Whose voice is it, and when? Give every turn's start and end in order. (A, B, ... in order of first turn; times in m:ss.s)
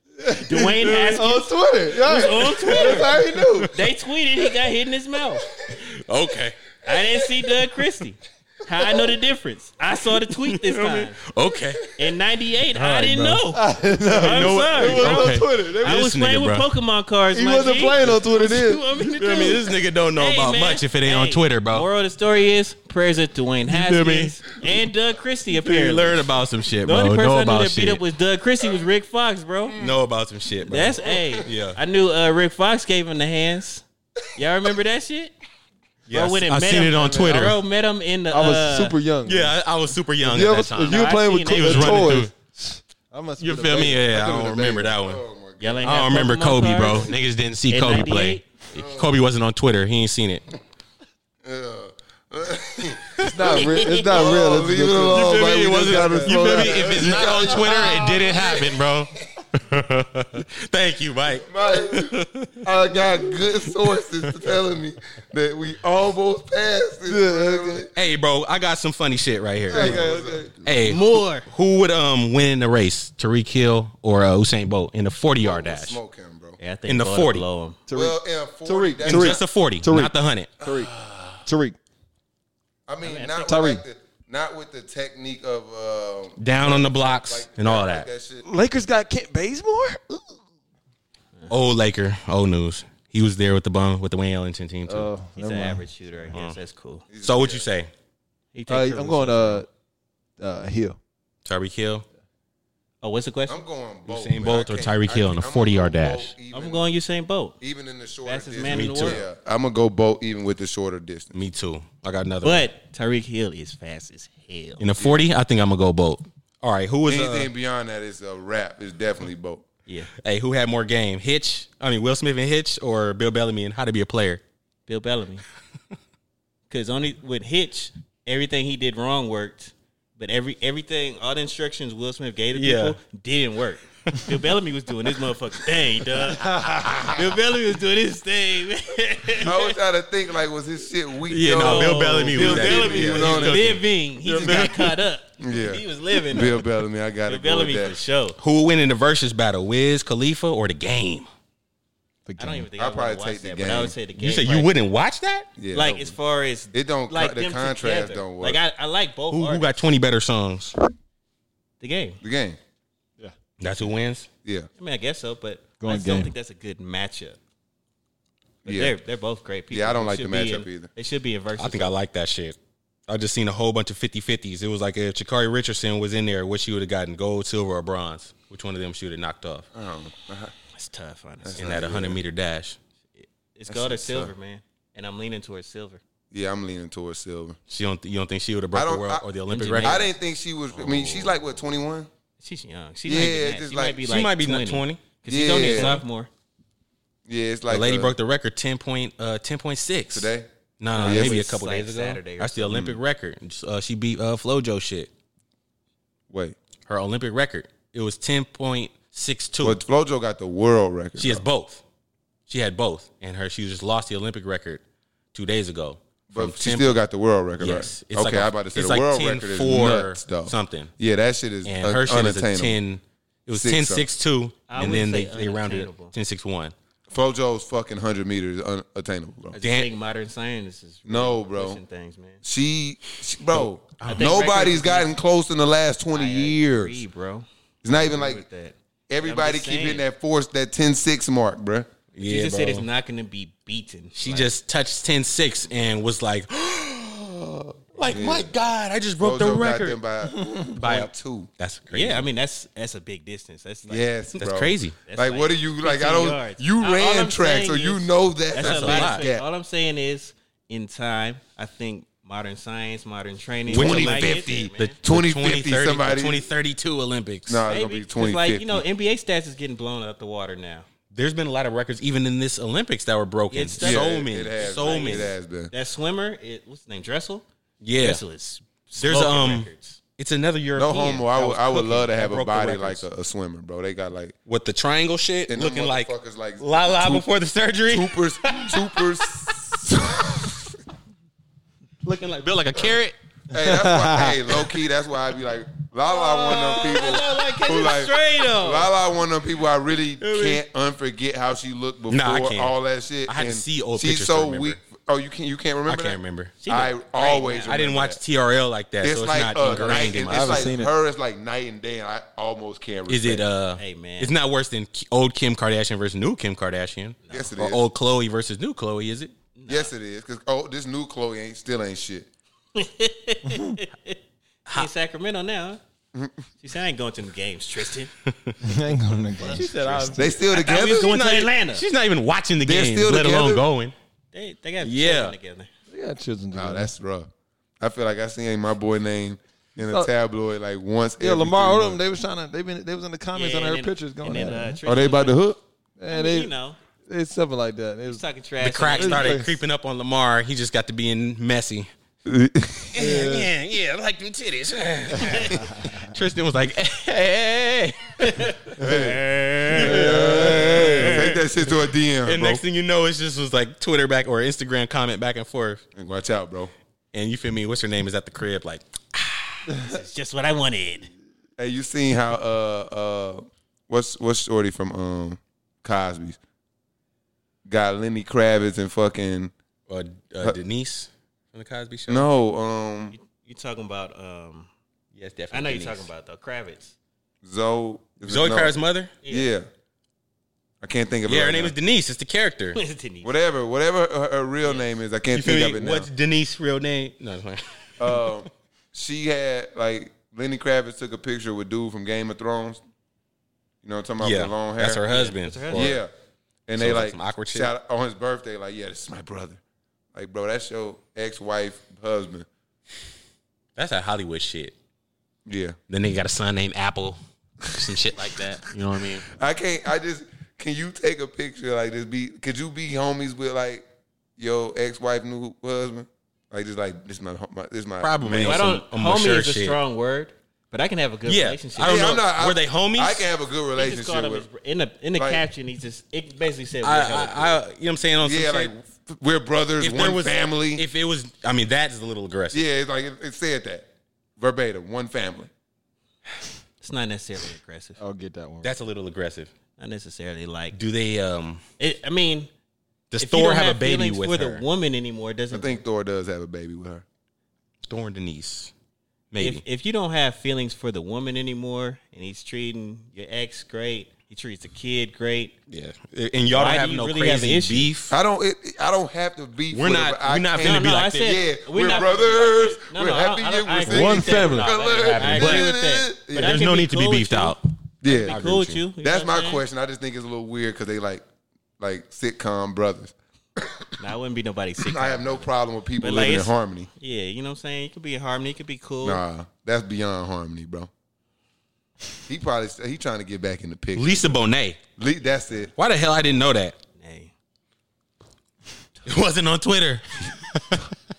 0:00.2-0:03.7 A
0:00.3-0:05.4 B
0:02.7-0:03.7 C
0:05.6-0:06.6 C
0:06.8-0:11.2 B
0:10.4-0:11.9 C
0:12.0-0:13.6 B
0:12.8-0:16.0 A
0:14.1-0:16.6 C
0:14.2-0:26.3 B
0:17.3-0:18.8 A
0:19.2-0:21.9 C
0:23.7-0:24.4 C
0:25.6-0:28.0 C
0:26.8-0:29.8 B
0:29.8-0:31.8 C
0:30.7-0:33.8 B
0:34.3-0:35.3 B
0:36.1-0:37.6 C
0:36.1-0:39.0 B
0:38.3-0:39.6 A
0:39.2-0:42.3 C
0:40.2-0:44.8 A
0:40.8-0:42.2 B
0:43.4-0:45.2 C
0:44.2-0:46.0 D
0:45.6-0:47.1 B
0:45.8-0:50.4 C
0:47.7-0:48.4 B
0:48.7-0:49.1 D
0:51.4-0:58.9 D
0:53.2-0:58.0 A
0:55.1-1:02.6 C
1:01.4-1:07.9 D
1:07.1-1:07.9 A
1:07.9-1:10.1 C
1:09.7-1:10.5 A
1:09.7-1:10.7 D
1:10.6-1:16.0 C
1:10.8-1:11.4 B
1:15.4-1:16.6 D
1:16.6-1:17.8 B
1:16.9-1:17.4 C
1:17.9-1:20.9 A
1:17.9-1:19.4 D
1:19.0-1:20.5 C
1:20.6-1:21.3 D
1:21.4-1:21.8 A
1:22.9-1:28.4 D
1:23.0-1:23.6 B
1:23.4-1:23.8 A
1:26.4-1:28.1 C
1:28.4-1:30.4 A
1:31.5-1:35.1 C
1:34.9-1:35.8 A
1:35.4-1:37.0 B
1:36.3-1:36.6 C
1:37.1-1:37.7 D
1:37.2-1:37.9 C
1:38.5-1:39.6 B
1:38.7-1:39.7 A
1:40.4-1:41.0 A
1:41.4-1:42.0 C
1:43.0-1:43.6 B
1:43.5-1:46.8 D
1:44.1-1:46.3 C
1:46.5-1:47.6 B
1:47.6-1:51.3 D
1:48.2-1:49.2 B
1:48.7-1:49.2 C
1:51.3-1:52.6 C
1:52.4-1:54.8 B
1:54.8-1:57.5 C
1:55.0-1:55.3 D
1:57.1-1:59.6 D
2:00.2-2:04.4 C
2:04.9-2:05.4 B
2:06.7-2:19.7 B
2:12.5-2:13.0 C
2:16.5-2:16.8 A
2:19.4-2:23.8 D
2:21.3-2:23.8 C
2:21.5-2:26.6 B
2:22.4-2:23.2 A
2:24.3-2:24.8 C
2:24.3-2:24.9 A
2:25.4-2:28.0 D
2:27.3-2:28.4 B
2:28.4-2:31.3 C
2:32.2-2:32.7 A
2:32.4-2:34.7 B
2:32.8-2:33.9 D
2:34.2-2:35.5 C
2:35.6-2:36.2 D
2:35.7-2:39.7 B
2:36.7-2:38.6 D
2:39.3-2:40.7 C
2:41.8-2:42.2 B
2:42.2-2:42.6 D
2:43.6-2:44.3 C
2:44.8-2:47.4 B
2:45.8-2:46.3 A
2:48.6-2:48.9 D
2:48.6-2:51.9 B
2:49.7-2:50.9 D
2:51.6-2:52.6 C
2:53.1-2:59.7 C
2:59.7-3:00.5 D
3:00.7-3:01.6 B
3:01.4-3:02.2 D
3:01.6-3:02.8 C
3:03.2-3:06.0 B
3:03.7-3:04.3 D
3:06.3-3:07.6 D
3:07.7-3:10.0 C
3:08.7-3:09.2 D
3:09.5-3:10.1 B
3:09.8-3:12.1 D
3:10.7-3:11.3 B
3:12.4-3:16.3 B
3:13.0-3:14.0 D
3:14.0-3:16.0 C
3:15.3-3:16.0 D
3:17.3-3:18.1 D
3:17.7-3:25.1 C
3:20.1-3:20.5 D
3:20.9-3:22.8 B
3:21.0-3:21.4 D
3:22.7-3:23.0 D
3:26.3-3:26.6 D
3:26.9-3:29.8 C
3:29.6-3:31.4 D
3:31.2-3:31.8 C
3:32.5-3:34.8 C
3:35.3-3:37.0 C
3:36.3-3:42.8 D
3:37.6-3:40.9 C
3:41.6-3:46.7 C
3:43.5-3:44.0 D
3:44.7-3:46.1 B
3:47.1-3:49.6 D
3:49.5-3:52.4 B
3:49.6-3:49.9 C
3:51.0-3:51.8 D
3:52.4-3:57.0 D
3:54.0-3:54.4 C
3:54.0-3:55.1 B
3:56.1-4:00.0 B
3:57.8-3:58.4 D
3:59.1-4:01.9 D
4:02.2-4:02.9 C
4:02.2-4:04.5 B
4:04.1-4:10.0 C
4:08.0-4:08.5 D
4:09.2-4:11.5 D
4:10.7-4:12.3 C
4:11.9-4:14.1 B
4:13.9-4:19.4 D
4:14.4-4:15.0 C
4:15.0-4:25.0 B
4:18.6-4:19.3 C
4:23.7-4:26.4 D
4:23.7-4:27.6 C
4:27.5-4:28.8 D
4:27.7-4:30.8 B
4:31.1-4:35.3 C
4:33.5-4:37.4 B
4:33.8-4:35.7 D
4:37.8-4:38.2 C
4:38.0-4:40.0 B
4:39.0-4:43.0 C
4:40.8-4:44.3 D
4:44.5-4:49.6 C
4:45.5-4:47.2 D
4:47.9-4:50.7 D
4:52.0-4:53.1 C
4:53.5-5:08.2 D
4:53.5-4:54.5 A
4:56.1-4:58.9 B
5:00.2-5:00.6 C
5:02.1-5:02.7 C
5:03.3-5:04.8 C
5:05.9-5:06.5 C
5:06.6-5:07.7 B
5:07.6-5:10.7 C
5:09.0-5:13.4 D
5:10.2-5:10.9 A
5:13.1-5:19.3 C
5:13.8-5:14.3 B
5:17.2-5:17.5 B
5:17.3-5:17.8 D
5:19.6-5:19.9 B
5:19.7-5:22.3 D
5:22.7-5:24.2 B
5:24.7-5:25.8 B
5:26.1-5:26.4 D
5:26.6-5:28.1 B
5:28.2-5:28.6 C
5:28.6-5:30.2 A
5:29.4-5:31.8 B
5:29.4-5:33.9 C
5:30.1-5:31.1 D
5:32.6-5:33.6 D
5:34.3-5:35.7 B
5:34.8-5:35.3 C
5:35.9-5:36.9 A
5:36.5-5:42.0 D
5:41.2-5:44.8 A
5:43.3-5:45.4 B
5:44.8-5:45.6 D
5:46.0-5:46.5 A
5:46.1-5:46.8 B
5:47.1-5:48.2 A
5:48.1-5:49.5 B
5:48.6-5:51.9 C
5:48.9-5:49.5 A
5:52.2-5:53.1 D
5:52.9-5:58.5 C
5:53.0-5:53.5 A
5:58.2-6:01.1 B
5:58.8-5:59.2 D
5:59.6-6:01.5 C
5:59.8-6:02.6 D
5:59.8-6:01.2 A
6:02.2-6:05.8 C
6:05.9-6:06.7 D
6:07.1-6:09.7 C
6:09.8-6:11.1 B
6:11.6-6:16.4 D
6:17.6-6:19.5 D
6:19.9-6:22.2 C
6:22.1-6:23.1 D
6:23.1-6:24.7 B
6:25.1-6:26.1 C
6:25.5-6:26.9 B
6:27.4-6:28.7 D
6:28.2-6:29.1 C
6:29.2-6:29.5 B
6:29.3-6:29.6 D
6:30.8-6:31.7 D
6:31.2-6:32.8 C
6:32.7-6:33.3 B
6:33.2-6:36.1 D
6:35.3-6:38.4 C
6:38.0-6:42.8 D
6:43.8-6:45.1 D
6:44.2-6:46.0 C
6:45.1-6:45.9 B
6:45.7-6:46.1 D
6:46.7-6:49.6 D
6:46.8-6:47.7 C
6:50.1-6:52.4 D
6:53.8-6:54.7 C
6:55.4-6:55.8 D
6:55.9-6:59.3 C
6:59.3-7:03.8 D
7:04.4-7:08.6 D
7:08.0-7:09.8 C
7:08.4-7:12.0 B
7:11.2-7:13.3 C
7:11.8-7:14.5 D
7:13.7-7:17.6 B
7:15.2-7:15.4 D
7:16.8-7:18.7 C
7:18.2-7:20.8 D
7:19.8-7:22.6 C
7:22.5-7:23.9 D
7:24.4-7:25.5 D
7:26.8-7:28.0 B
7:28.0-7:28.7 A
7:28.6-7:29.5 C
7:29.8-7:30.8 B
7:30.7-7:31.6 C
7:31.8-7:32.5 B
7:33.1-7:34.6 C
7:33.2-7:35.8 B
7:35.5-7:37.0 D
7:37.9-7:38.7 C
7:39.3-7:39.6 C
7:39.4-7:45.5 B
7:45.7-7:48.1 C
7:46.5-7:47.9 B
7:48.1-7:56.6 D
7:49.7-7:51.4 C
7:50.6-7:59.6 B
7:53.9-7:54.7 A
7:55.0-7:55.7 C
7:56.3-7:57.6 C
7:58.0-7:58.4 D
7:58.3-7:58.8 C
7:59.0-8:01.2 D
8:01.8-8:03.9 D
8:04.0-8:09.2 B
8:04.8-8:06.9 D
8:09.0-8:10.9 D
8:12.3-8:14.4 D
8:13.9-8:14.8 C
8:15.0-8:15.7 D
8:15.8-8:16.7 C
8:17.0-8:17.3 B
8:19.0-8:20.9 C